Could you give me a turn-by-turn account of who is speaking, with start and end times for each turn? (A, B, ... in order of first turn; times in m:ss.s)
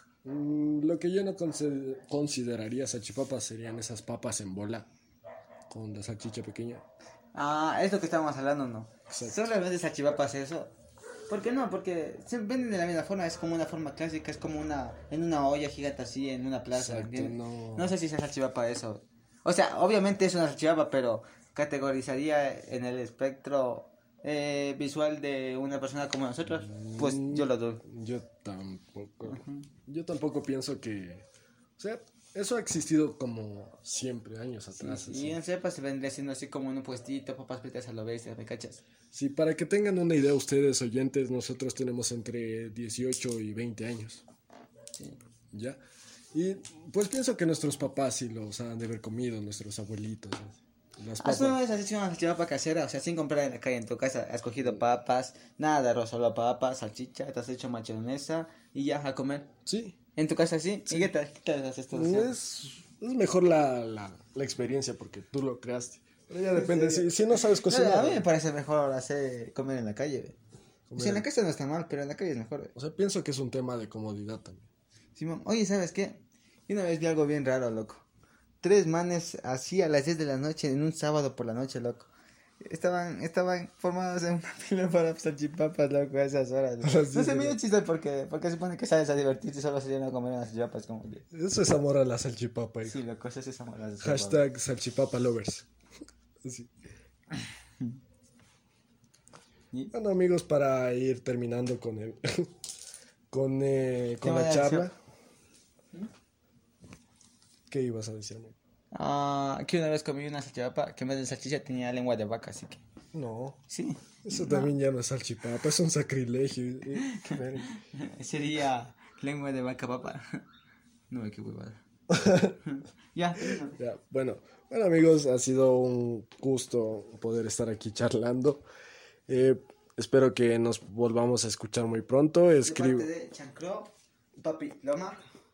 0:00.2-0:04.9 A
0:05.7-0:06.8 A
0:07.3-0:10.7 B
0:09.1-0:09.5 A
0:11.3-0:27.8 B
0:16.7-0:18.0 A
0:26.7-0:31.2 A
0:29.3-0:29.7 B
0:31.8-0:35.4 A
0:34.7-0:38.8 B
0:39.1-0:44.2 A
0:45.5-0:45.8 A
0:46.3-0:51.6 A
0:51.2-0:59.5 B
0:59.7-1:00.0 A
1:00.2-1:02.3 B
1:01.9-1:08.3 A
1:06.5-1:10.4 B
1:10.9-1:11.3 A
1:11.0-1:12.7 B
1:12.8-1:14.7 A
1:15.2-1:18.0 B
1:18.6-1:22.1 B
1:22.6-1:31.2 B
1:26.8-1:27.6 A
1:31.3-1:33.0 A
1:32.9-1:34.4 B
1:34.0-1:35.7 A
1:36.4-1:36.7 A
1:39.9-1:42.5 A
1:43.3-1:45.0 A
1:44.2-1:44.9 B
1:47.7-1:48.6 A
1:48.9-1:52.8 B
1:53.1-1:53.6 A
1:53.7-1:54.7 B
1:54.2-1:57.7 A
1:57.0-2:00.4 B
2:01.1-2:01.8 B
2:02.1-2:02.6 A
2:02.6-2:03.8 B
2:03.7-2:08.6 A
2:09.3-2:13.1 A
2:12.6-2:15.2 B